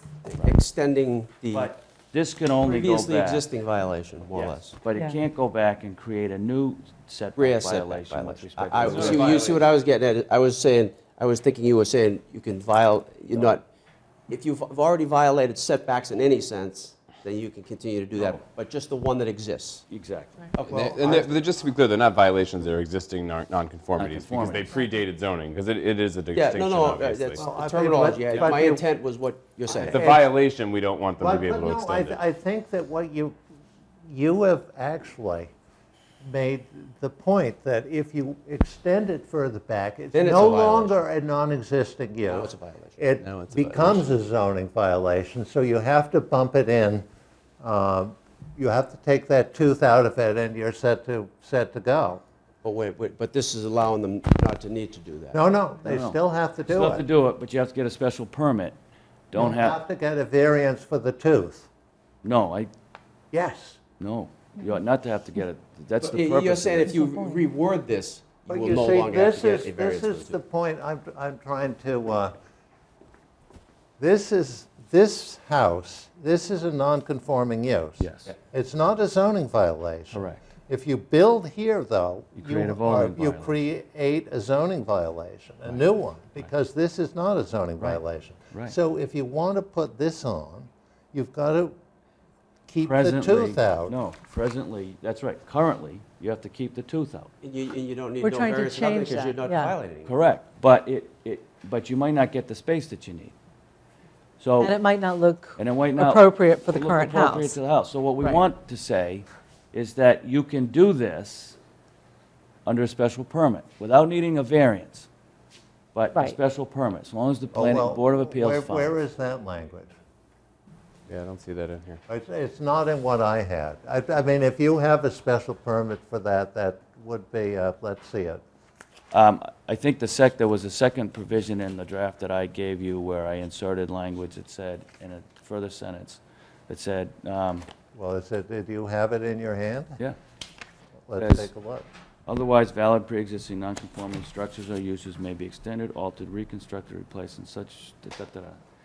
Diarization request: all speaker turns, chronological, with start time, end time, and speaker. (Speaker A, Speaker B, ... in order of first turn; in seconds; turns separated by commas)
Speaker A: 0.2-1.8, Speaker B: 1.5-3.5, Speaker A: 2.6-4.8, Speaker B: 4.3-9.5, Speaker A: 7.3-13.7, Speaker C: 8.8-9.6, Speaker A: 14.3-19.8, Speaker B: 18.2-18.4, Speaker B: 19.9-20.5, Speaker A: 20.5-21.3, Speaker C: 20.7-27.4, Speaker B: 23.9-24.8, Speaker A: 26.3-30.0, Speaker D: 27.4-28.8, Speaker D: 29.8-30.3, Speaker C: 29.9-32.2, Speaker D: 31.2-33.4, Speaker D: 34.1-35.5, Speaker D: 36.2-47.0, Speaker A: 40.1-41.0, Speaker A: 42.3-43.0, Speaker C: 43.2-44.2, Speaker D: 47.6-52.2, Speaker A: 52.6-55.4, Speaker D: 55.3-57.0, Speaker B: 55.8-58.8, Speaker B: 59.3-59.8, Speaker D: 59.3-61.7, Speaker B: 62.2-62.7, Speaker D: 63.3-63.8, Speaker B: 64.0-66.9, Speaker A: 66.0-70.4, Speaker E: 66.9-67.4, Speaker D: 68.5-72.3, Speaker D: 74.0-91.7, Speaker B: 78.0-78.3, Speaker B: 80.1-80.4, Speaker B: 82.3-83.5, Speaker B: 87.8-88.8, Speaker D: 92.7-94.0, Speaker B: 92.8-97.3, Speaker A: 97.4-100.2, Speaker E: 98.2-99.7, Speaker B: 100.0-103.3, Speaker B: 104.4-104.8, Speaker E: 104.6-107.5, Speaker B: 105.6-111.6, Speaker B: 112.7-115.1, Speaker B: 115.9-118.9, Speaker D: 117.5-119.9, Speaker C: 121.1-122.0, Speaker D: 122.1-128.4, Speaker B: 129.1-137.7, Speaker D: 137.9-140.0, Speaker D: 141.1-141.9, Speaker B: 141.2-141.5, Speaker B: 142.3-148.6